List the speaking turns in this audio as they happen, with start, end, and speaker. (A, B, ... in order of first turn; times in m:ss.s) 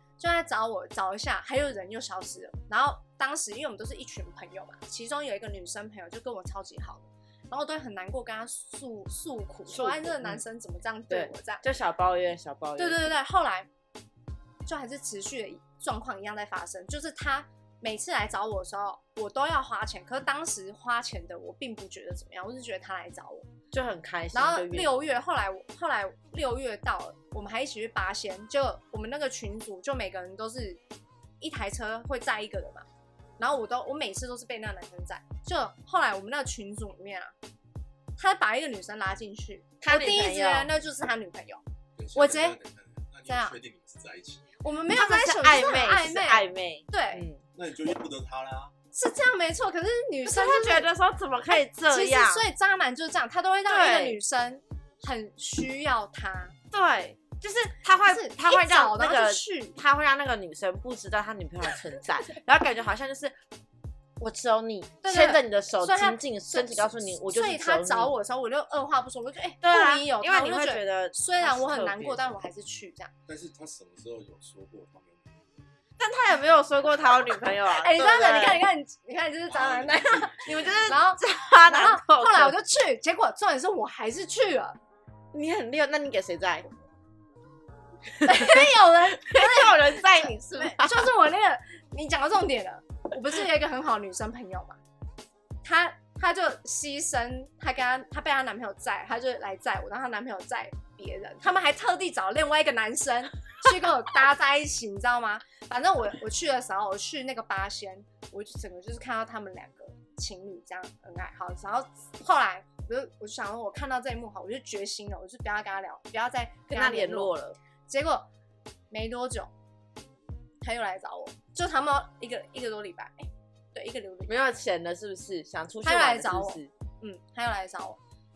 0:00.2-0:11.6 A
0:09.7-0:10.4 B
0:11.1-0:13.1 B
0:12.8-0:13.7 A
0:14.6-0:23.5 A
0:23.7-0:24.9 B
0:24.3-0:30.8 A
0:31.4-0:32.8 A
0:33.4-0:37.3 A
0:38.2-0:41.6 A
0:39.8-0:40.7 B
0:42.0-0:44.5 C
0:42.1-0:42.6 A
0:43.3-0:43.5 A
0:44.6-0:47.2 A
0:44.9-0:47.4 B
0:47.5-0:48.7 C
0:48.9-0:50.9 A
0:50.2-0:52.5 B
0:51.5-0:56.6 A
0:53.7-0:54.2 B
0:56.7-1:03.4 B
0:58.0-0:59.8 A
1:04.2-1:08.1 B
1:05.0-1:13.1 A
1:09.6-1:12.3 B
1:13.3-1:15.6 C
1:16.0-1:18.6 B
1:17.7-1:24.8 A
1:19.5-1:20.4 C
1:20.4-1:22.5 B
1:25.3-1:26.6 B
1:28.2-1:31.1 B
1:28.2-1:34.8 A
1:35.6-1:57.3 A
1:56.7-1:57.6 B
1:57.9-1:58.3 A
1:58.9-1:59.5 A
2:00.6-2:04.5 A
2:04.3-2:06.7 B
2:05.8-2:08.0 A